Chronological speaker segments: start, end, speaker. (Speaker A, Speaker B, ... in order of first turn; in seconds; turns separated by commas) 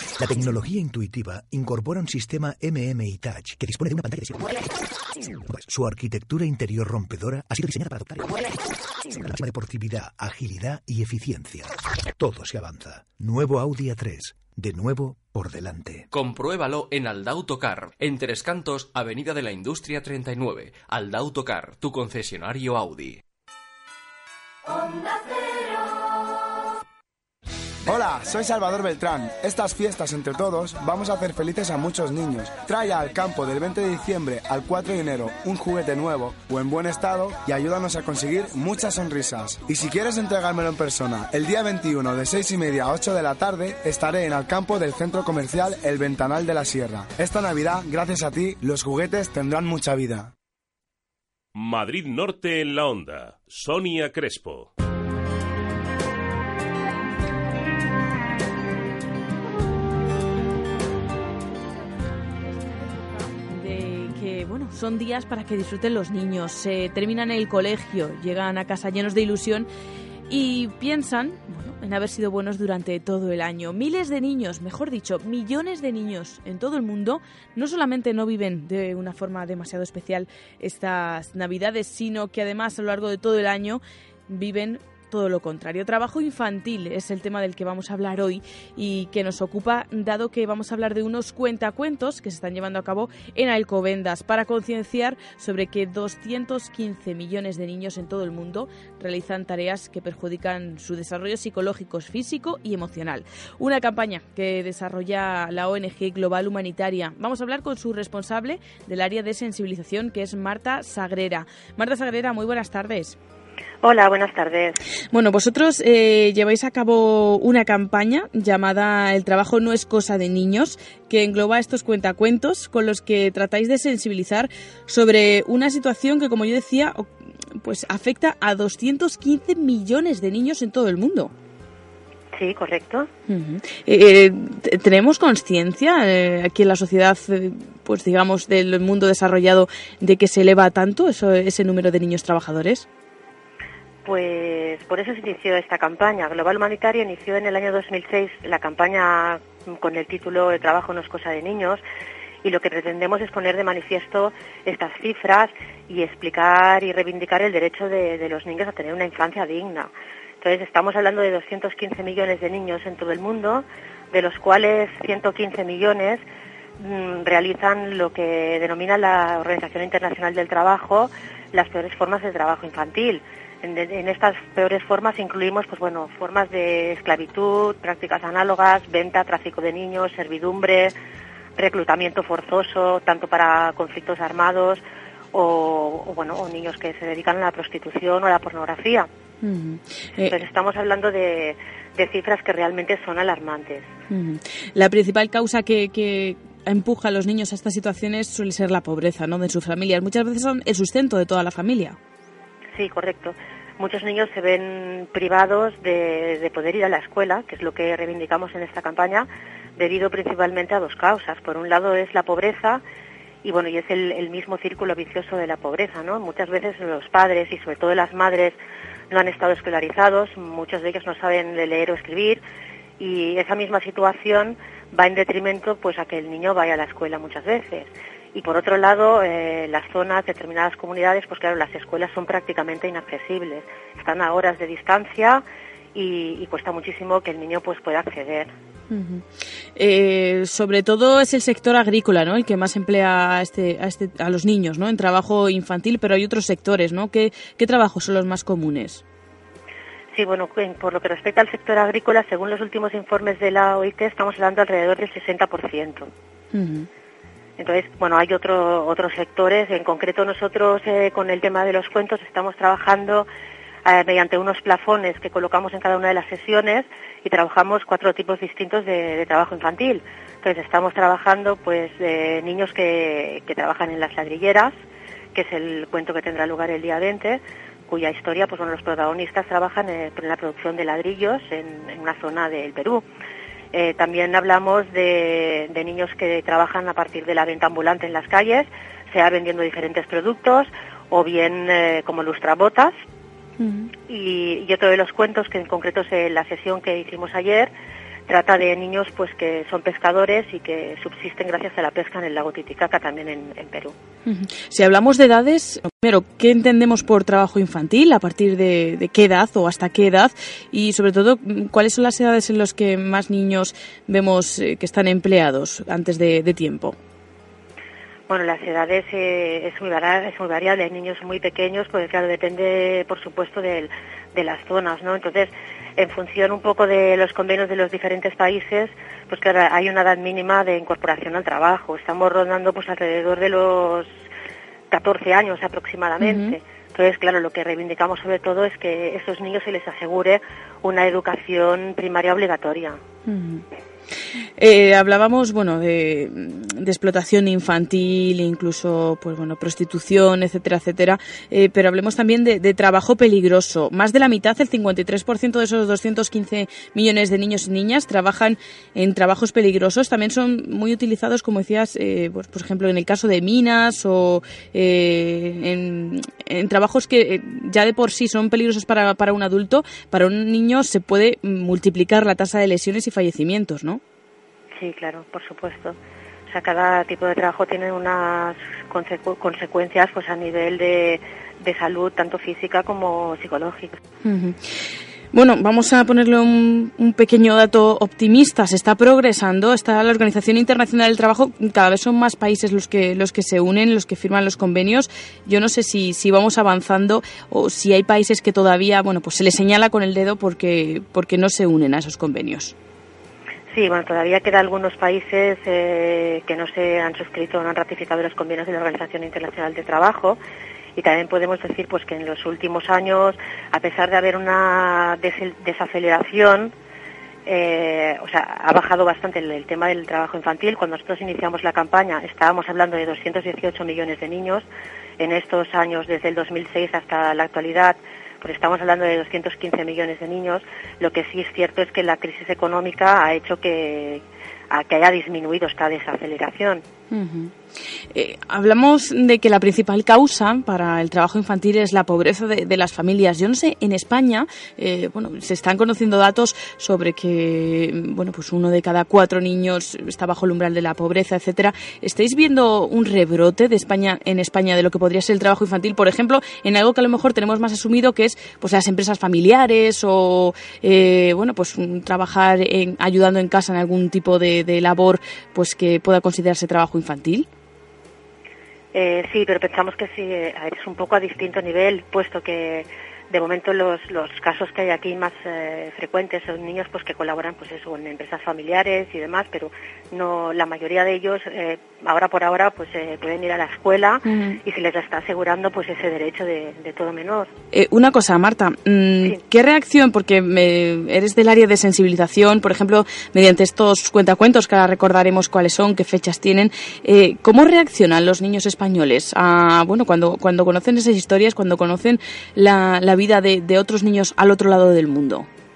Speaker A: 0.2-4.6, Speaker A: 5.4-8.6, Speaker A: 9.1-16.1, Speaker B: 16.1-23.2, Speaker C: 27.9-50.3, Speaker D: 51.5-54.7, Speaker E: 63.5-69.7, Speaker E: 70.3-113.2, Speaker F: 113.8-114.8, Speaker E: 115.1-131.3, Speaker F: 132.3-133.1, Speaker E: 133.3-142.9, Speaker F: 144.1-151.8, Speaker F: 152.4-166.2, Speaker F: 166.8-180.9, Speaker F: 181.6-189.1, Speaker E: 189.4-190.4, Speaker F: 190.2-193.9, Speaker E: 194.1-202.0, Speaker F: 202.7-212.8, Speaker F: 213.4-218.6, Speaker F: 219.1-222.4, Speaker F: 223.0-235.4, Speaker F: 235.9-238.5, Speaker E: 238.9-249.0, Speaker F: 250.1-256.1, Speaker E: 256.5-256.9, Speaker F: 257.6-263.3, Speaker F: 263.9-274.8, Speaker F: 275.3-283.1, Speaker F: 283.7-292.9, Speaker E: 293.6-293.9, Speaker F: 294.1-297.7, Speaker F: 298.3-303.9, Speaker E: 304.3-316.9, Speaker F: 318.3-334.1, Speaker F: 334.9-343.0, Speaker E: 336.2-336.6, Speaker E: 343.3-343.6, Speaker E: 344.6-374.0, Speaker F: 374.7-376.0, Speaker F: 376.5-384.0, Speaker E: 384.2-402.7, Speaker F: 403.7-410.4, Speaker F: 410.9-416.7, Speaker F: 417.4-424.7, Speaker F: 425.2-436.8, Speaker E: 437.1-437.5, Speaker E: 438.1-467.5, Speaker F: 468.9-487.5, Speaker E: 484.2-484.6, Speaker E: 487.7-505.5